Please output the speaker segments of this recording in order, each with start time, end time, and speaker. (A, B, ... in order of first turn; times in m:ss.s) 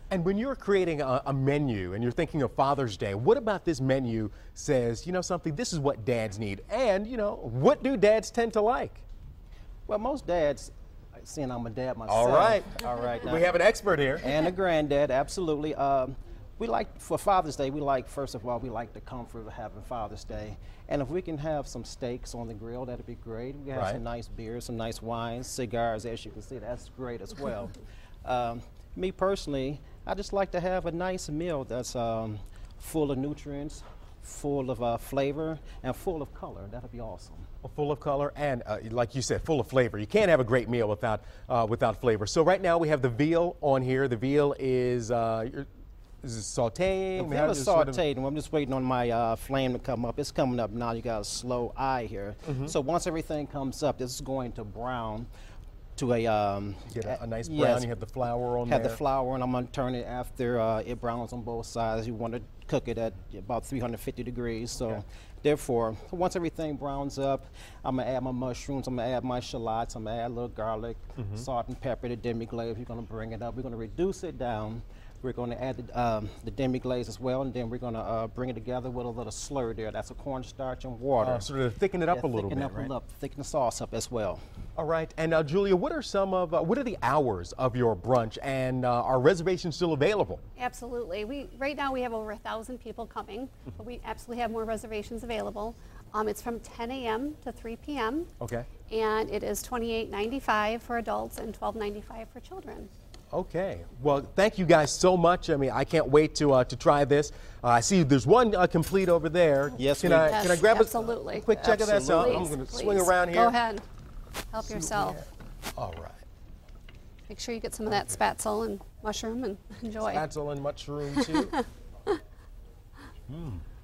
0:00.1-0:09.0 A
0:09.9-0:13.5 B
0:12.1-0:14.3 A
0:14.2-0:37.5 B
0:23.7-0:24.0 A
0:37.6-0:45.7 A
0:46.2-0:48.0 A
0:47.2-0:55.3 B
0:52.5-0:52.7 A
0:56.0-0:57.9 B
0:56.9-0:59.0 A
0:58.6-1:21.5 B
1:11.2-1:11.4 A
1:21.2-1:22.9 A
1:22.1-1:24.4 B
1:24.8-1:30.4 A
1:30.6-1:38.3 C
1:38.4-1:38.7 A
1:38.9-1:42.9 C
1:43.3-1:53.6 A
1:49.8-1:50.5 B
1:50.2-1:51.5 C
1:51.5-1:52.6 B
1:52.0-1:53.8 C
1:54.5-1:55.2 C
1:54.6-1:56.2 A
1:57.3-2:00.2 C
2:00.0-2:01.6 A
2:01.1-2:01.6 C
2:03.3-2:03.6 A